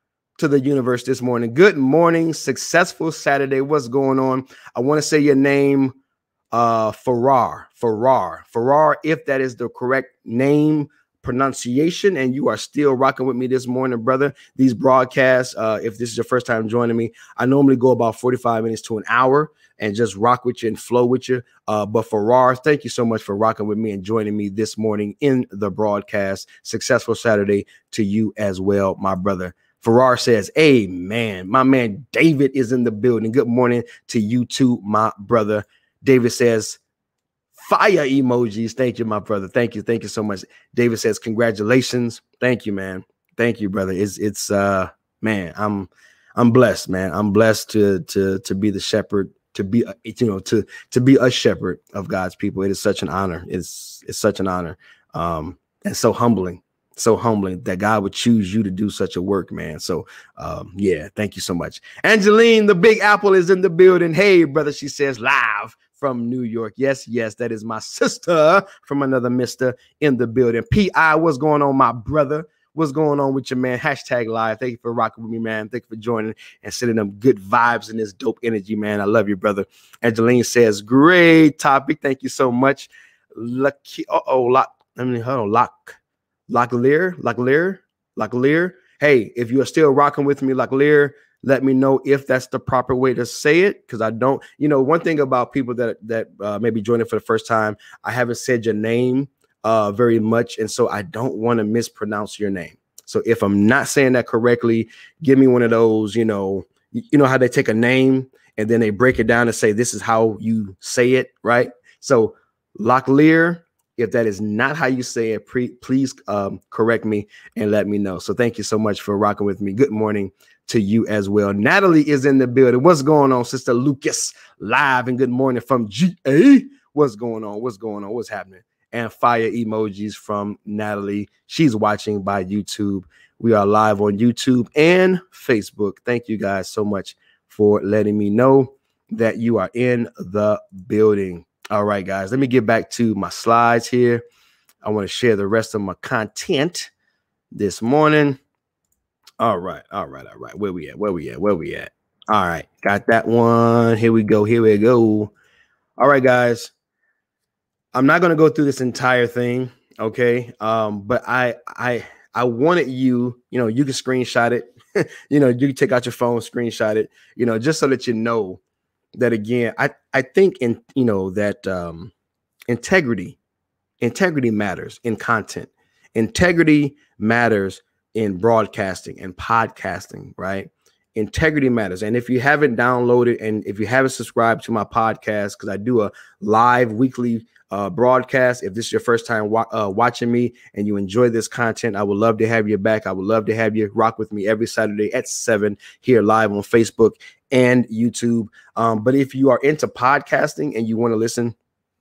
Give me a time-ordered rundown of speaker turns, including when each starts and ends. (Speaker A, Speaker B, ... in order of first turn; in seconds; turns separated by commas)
Speaker A: 0.4-6.0, Speaker A: 6.5-36.8, Speaker A: 37.5-86.0, Speaker A: 86.5-144.2, Speaker A: 144.8-146.9, Speaker A: 147.5-148.4, Speaker A: 149.4-155.3, Speaker A: 156.0-156.7, Speaker A: 157.9-168.6, Speaker A: 169.2-172.1, Speaker A: 172.7-173.4, Speaker A: 174.0-201.6